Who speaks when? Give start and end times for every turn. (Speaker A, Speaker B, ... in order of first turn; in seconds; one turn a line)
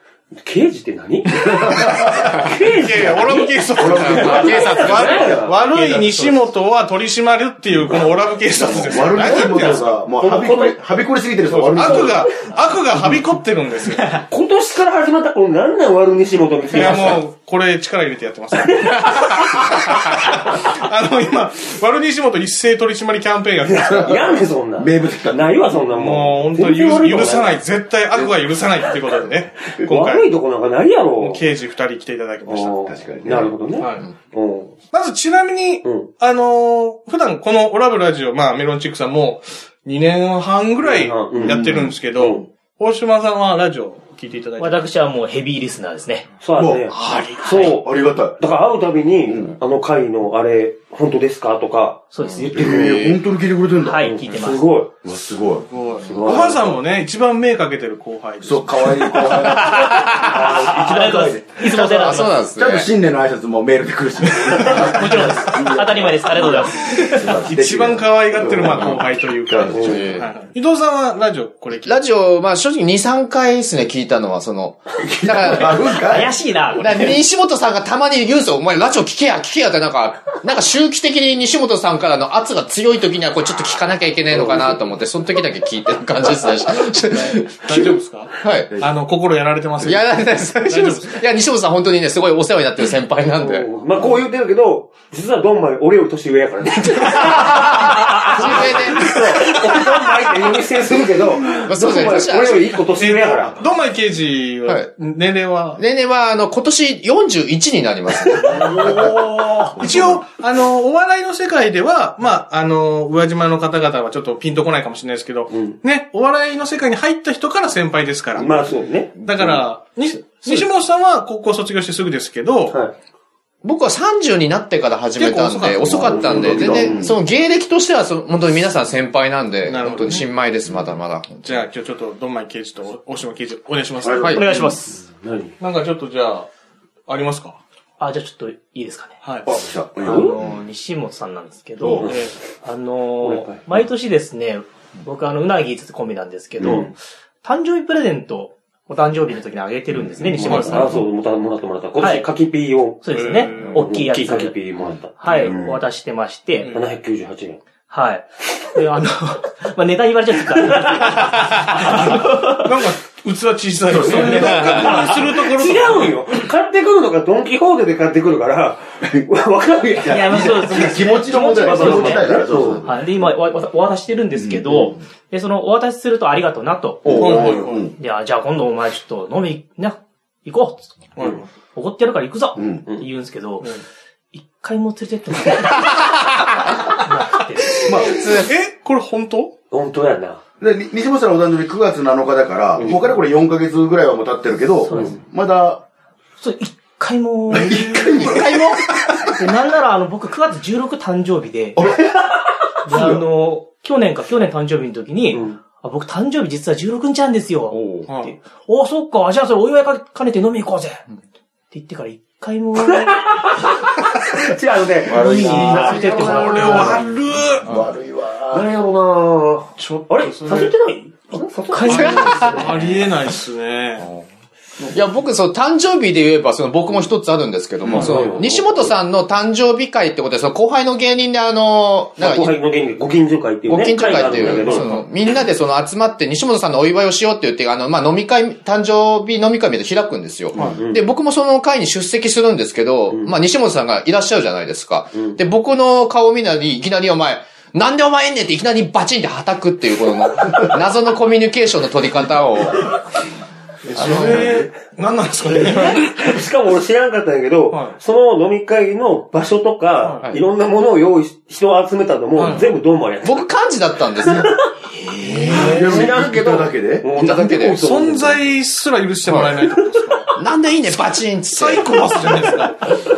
Speaker A: 0.3-6.2
Speaker B: 1.4-2.5
Speaker C: 2.5-10.0
Speaker B: 3.8-4.6
Speaker D: 3.8-5.4
Speaker B: 8.5-12.3
Speaker A: 9.2-10.9
Speaker C: 11.4-14.2
Speaker A: 11.7-12.5
Speaker A: 14.3-17.2
Speaker C: 16.7-24.4
Speaker A: 18.6-20.6
Speaker A: 23.6-27.6
Speaker B: 24.8-25.5
Speaker C: 25.9-30.3
Speaker A: 29.8-31.4
Speaker C: 31.2-32.9
Speaker A: 32.5-34.8
Speaker B: 32.7-33.5
Speaker C: 33.8-34.1
Speaker C: 34.9-44.8
Speaker A: 35.8-36.1
Speaker A: 40.8-41.6
Speaker B: 41.4-42.0
Speaker A: 42.1-42.5
Speaker E: 44.6-46.3
Speaker A: 46.4-52.7
Speaker B: 46.6-48.4
Speaker D: 46.9-47.7
Speaker B: 49.3-49.6
Speaker E: 52.1-53.1
Speaker B: 52.5-54.1
Speaker D: 52.6-53.2
Speaker E: 53.8-54.6
Speaker A: 54.0-54.9
Speaker B: 55.0-55.7
Speaker C: 55.7-59.5
Speaker A: 56.0-56.8
Speaker B: 56.2-56.5
Speaker B: 58.4-70.1
Speaker D: 59.7-60.3
Speaker E: 59.7-62.4
Speaker D: 61.8-62.9
Speaker C: 64.4-64.9
Speaker E: 64.6-67.3
Speaker C: 66.9-72.0
Speaker D: 68.6-69.0
Speaker A: 69.7-70.1
Speaker D: 69.8-70.3
Speaker D: 71.8-76.0
Speaker B: 75.0-76.4
Speaker E: 75.7-77.2
Speaker D: 76.8-88.7
Speaker B: 84.4-84.7
Speaker C: 87.2-91.2
Speaker D: 89.8-93.7
Speaker A: 93.4-103.6
Speaker D: 97.0-99.0
Speaker D: 101.7-102.8
Speaker C: 102.9-105.8
Speaker D: 105.8-109.1
Speaker A: 108.4-109.2
Speaker C: 108.5-122.8
Speaker B: 108.8-110.2
Speaker A: 115.5-115.8
Speaker A: 118.4-119.2
Speaker A: 122.7-122.9
Speaker D: 123.6-131.6
Speaker C: 125.2-126.8
Speaker B: 125.8-127.2
Speaker A: 126.0-127.1
Speaker C: 129.7-130.3
Speaker C: 131.4-134.3
Speaker B: 134.0-134.6
Speaker E: 134.2-135.0
Speaker A: 134.4-135.6
Speaker C: 135.6-136.5
Speaker C: 137.1-137.6
Speaker E: 138.0-139.2
Speaker C: 139.2-139.5
Speaker B: 139.5-140.6
Speaker A: 140.0-140.4
Speaker E: 140.0-151.0
Speaker A: 141.9-142.3
Speaker C: 142.0-142.3
Speaker A: 143.2-143.7
Speaker A: 146.6-146.9
Speaker A: 150.3-155.8
Speaker C: 150.4-151.0
Speaker E: 152.0-152.3
Speaker E: 153.0-154.6
Speaker C: 153.1-153.9
Speaker E: 155.2-156.8
Speaker C: 156.6-156.9
Speaker A: 156.7-157.6
Speaker E: 157.9-162.7
Speaker C: 161.1-166.3
Speaker B: 163.8-165.1
Speaker A: 164.2-172.9
Speaker D: 164.4-164.9
Speaker B: 170.0-173.0
Speaker E: 170.1-183.7
Speaker B: 174.3-174.7
Speaker B: 177.0-177.9
Speaker C: 177.1-177.9
Speaker C: 181.2-181.5
Speaker B: 182.6-182.9
Speaker E: 184.3-188.2
Speaker D: 186.4-186.7
Speaker B: 187.8-188.2
Speaker D: 188.1-188.5
Speaker C: 188.3-189.5
Speaker A: 189.7-190.4
Speaker B: 190.6-195.8
Speaker E: 194.8-195.2
Speaker A: 194.9-195.2
Speaker E: 196.4-201.9
Speaker B: 197.5-199.3
Speaker D: 198.2-198.8
Speaker B: 201.8-202.3
Speaker E: 202.8-211.0
Speaker B: 202.9-203.2
Speaker A: 205.3-205.6
Speaker D: 207.7-208.1
Speaker C: 208.1-208.3
Speaker E: 211.7-213.7
Speaker A: 212.8-216.8
Speaker B: 215.0-217.0
Speaker E: 215.1-217.0
Speaker C: 216.0-217.7
Speaker B: 217.6-218.7
Speaker A: 218.5-222.9
Speaker C: 219.8-220.7
Speaker E: 221.7-222.8
Speaker D: 221.8-222.6
Speaker C: 221.9-224.1
Speaker D: 224.9-232.6
Speaker B: 227.8-228.5
Speaker A: 227.9-228.7
Speaker A: 232.2-234.9
Speaker D: 233.7-253.0
Speaker C: 234.5-235.1
Speaker A: 240.6-241.0
Speaker C: 253.9-256.1
Speaker B: 253.9-254.7
Speaker D: 254.0-254.5
Speaker A: 255.5-263.5
Speaker C: 262.4-262.7
Speaker D: 263.2-264.5
Speaker A: 264.2-264.6
Speaker E: 265.0-265.7
Speaker C: 265.3-265.9
Speaker B: 265.3-267.1
Speaker A: 265.6-268.4
Speaker D: 267.1-267.8
Speaker C: 267.8-270.3
Speaker D: 269.3-269.6
Speaker D: 270.4-272.5
Speaker C: 271.5-272.8